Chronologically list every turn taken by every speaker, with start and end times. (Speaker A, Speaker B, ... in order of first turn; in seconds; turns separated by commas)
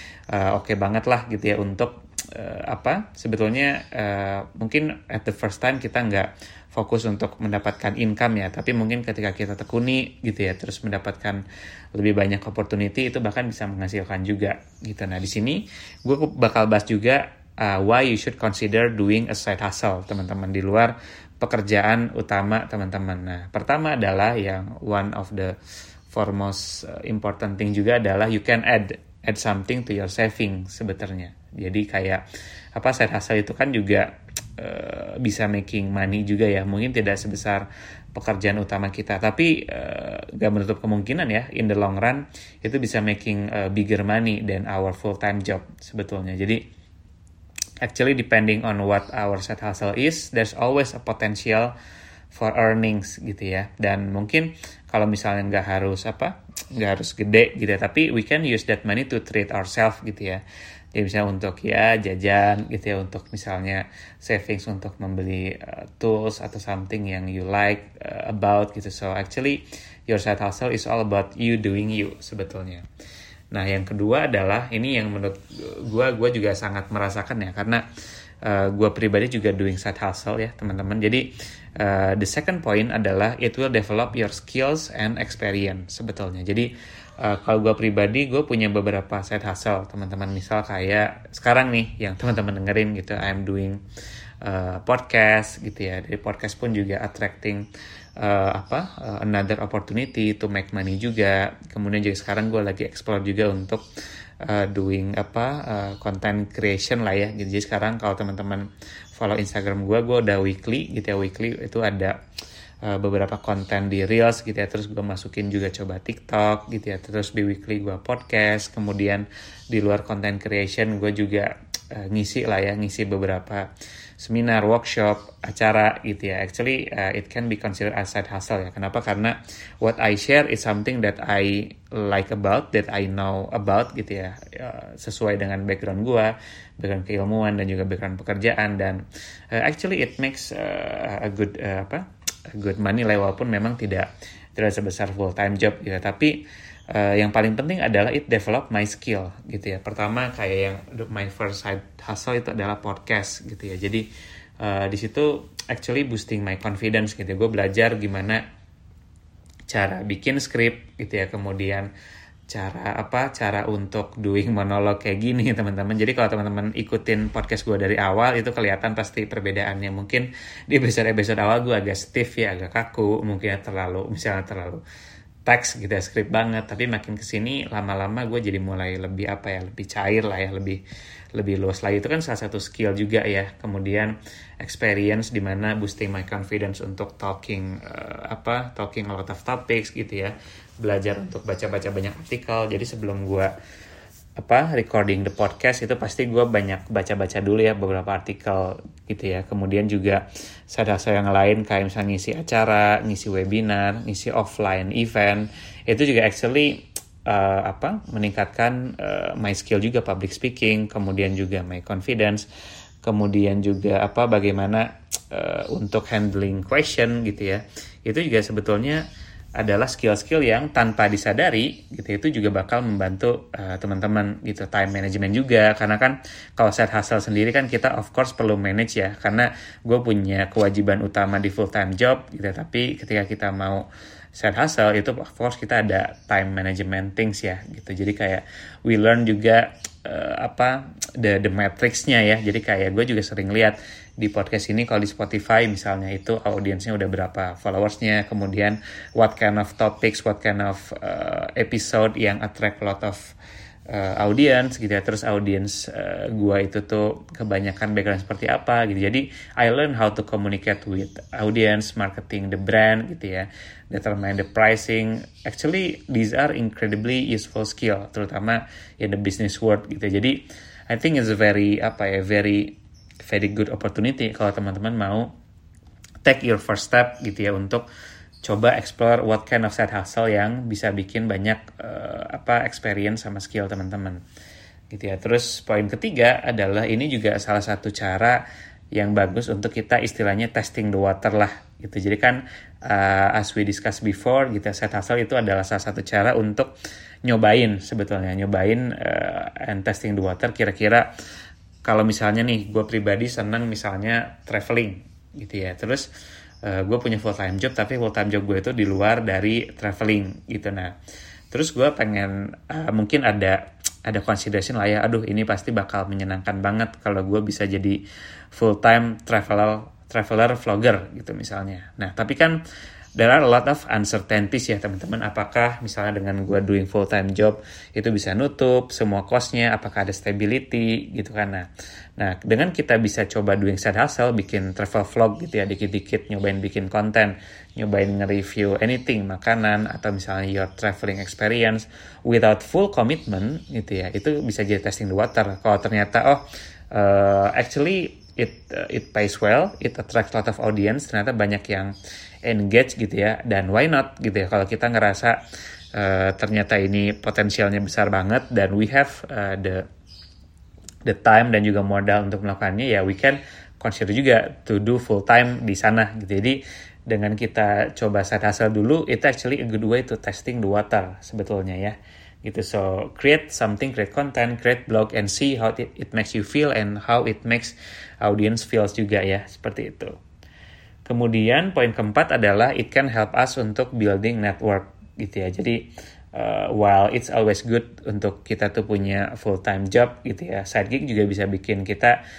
Speaker A: 0.3-11.4, Speaker A: 11.9-25.5, Speaker A: 26.1-32.2, Speaker A: 32.7-46.6, Speaker A: 47.8-51.7, Speaker A: 52.3-60.4, Speaker A: 60.9-72.8, Speaker A: 73.5-77.8, Speaker A: 78.4-86.7, Speaker A: 87.2-93.8, Speaker A: 94.4-97.6, Speaker A: 98.2-103.8, Speaker A: 104.4-112.1, Speaker A: 112.8-123.6, Speaker A: 124.2-154.1, Speaker A: 154.6-158.4, Speaker A: 159.7-161.9, Speaker A: 162.5-174.8, Speaker A: 175.4-180.8, Speaker A: 181.3-193.5, Speaker A: 194.4-212.5, Speaker A: 213.0-219.0, Speaker A: 219.6-253.3, Speaker A: 253.9-275.3, Speaker A: 276.2-277.8, Speaker A: 278.4-284.2, Speaker A: 284.9-288.4, Speaker A: 288.9-296.7, Speaker A: 297.2-301.1, Speaker A: 301.8-306.1, Speaker A: 306.6-310.9, Speaker A: 311.5-318.0, Speaker A: 318.5-322.6, Speaker A: 323.2-331.7, Speaker A: 332.2-351.9, Speaker A: 352.4-355.4, Speaker A: 355.9-359.8, Speaker A: 361.1-380.2, Speaker A: 381.0-392.1